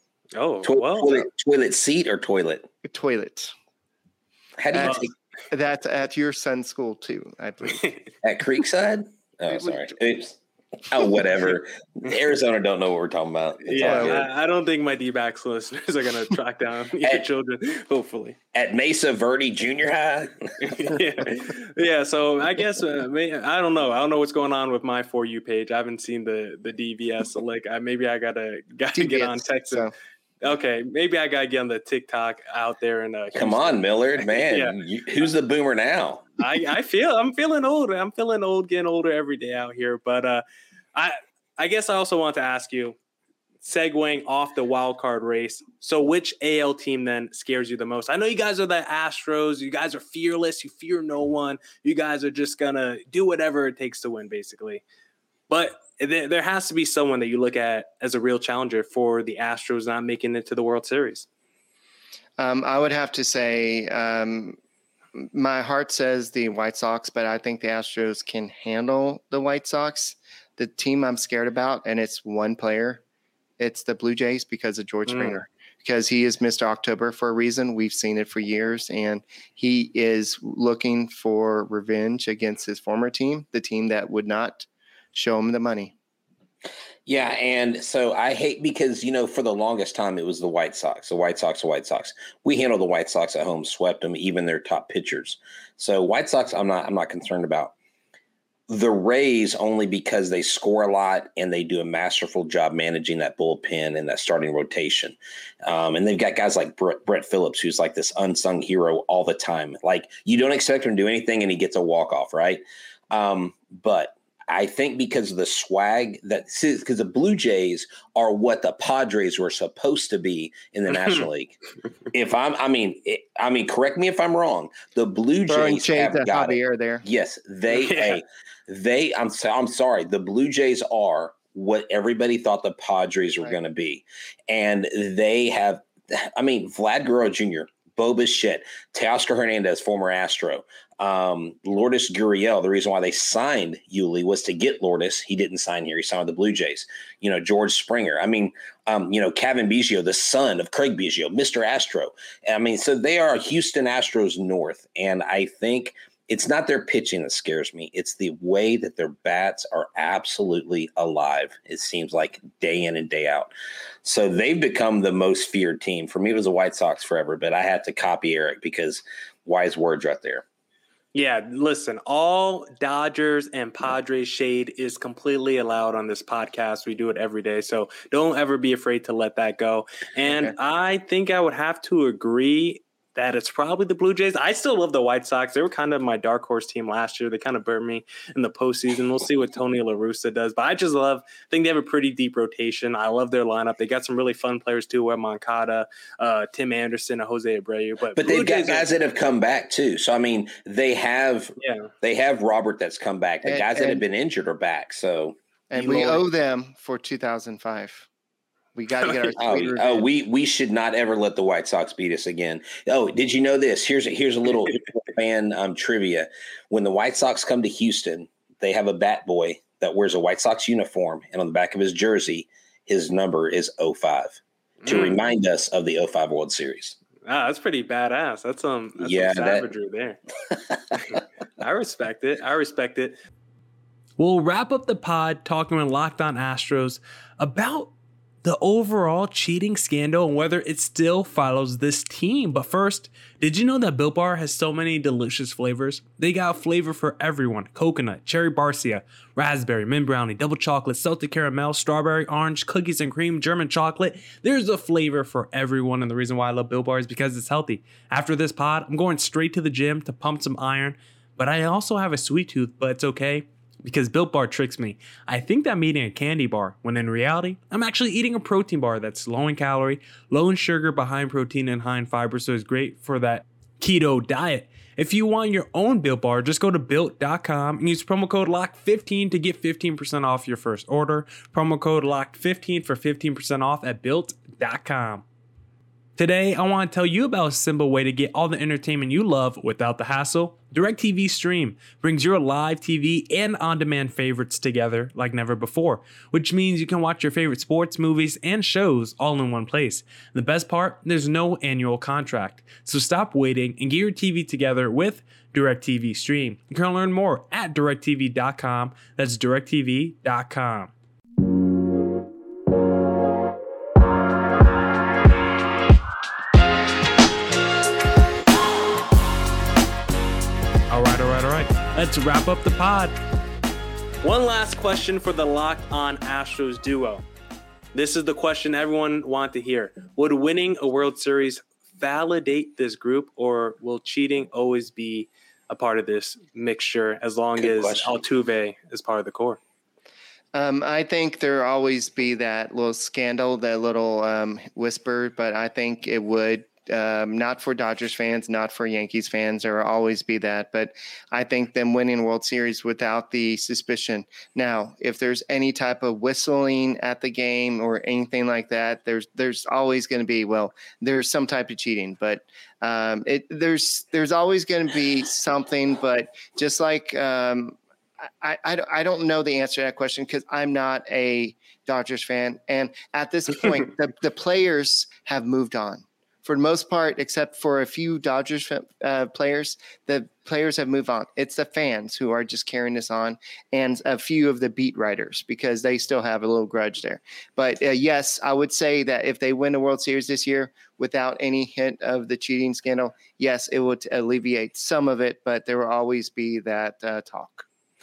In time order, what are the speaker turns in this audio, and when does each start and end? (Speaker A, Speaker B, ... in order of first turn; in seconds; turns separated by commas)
Speaker A: 0.3-1.2, Speaker B: 0.6-2.7, Speaker C: 2.8-3.5, Speaker B: 4.6-5.1, Speaker C: 4.7-7.9, Speaker B: 8.2-14.3, Speaker C: 9.5-9.9, Speaker A: 13.7-18.4, Speaker C: 13.7-14.2, Speaker B: 18.5-20.9, Speaker A: 20.6-29.8, Speaker C: 28.9-29.9, Speaker A: 30.4-34.8, Speaker B: 33.3-36.3, Speaker A: 36.4-40.4, Speaker A: 40.9-43.0, Speaker A: 43.6-54.8, Speaker A: 55.5-61.3, Speaker C: 62.4-64.6, Speaker C: 65.2-73.0, Speaker C: 73.6-85.9, Speaker A: 75.1-75.4, Speaker B: 87.0-97.7, Speaker B: 98.7-121.5, Speaker B: 122.1-163.5, Speaker C: 125.5-127.0, Speaker A: 127.7-128.2, Speaker B: 164.0-170.4, Speaker A: 171.1-198.9, Speaker C: 180.3-180.5, Speaker B: 198.2-205.4, Speaker A: 201.6-201.9, Speaker C: 203.4-204.0, Speaker C: 205.7-208.1, Speaker A: 205.7-206.2, Speaker C: 208.7-210.0, Speaker A: 209.0-209.3, Speaker B: 209.4-226.9, Speaker A: 224.8-225.2, Speaker A: 227.2-230.2, Speaker B: 229.0-229.7, Speaker B: 230.5-231.2, Speaker A: 231.1-233.2, Speaker A: 234.2-237.9, Speaker A: 238.4-285.2, Speaker A: 286.2-310.9, Speaker A: 320.9-323.2, Speaker A: 324.2-327.2, Speaker A: 327.9-339.6, Speaker B: 337.6-338.2, Speaker C: 340.5-367.8, Speaker C: 368.4-397.6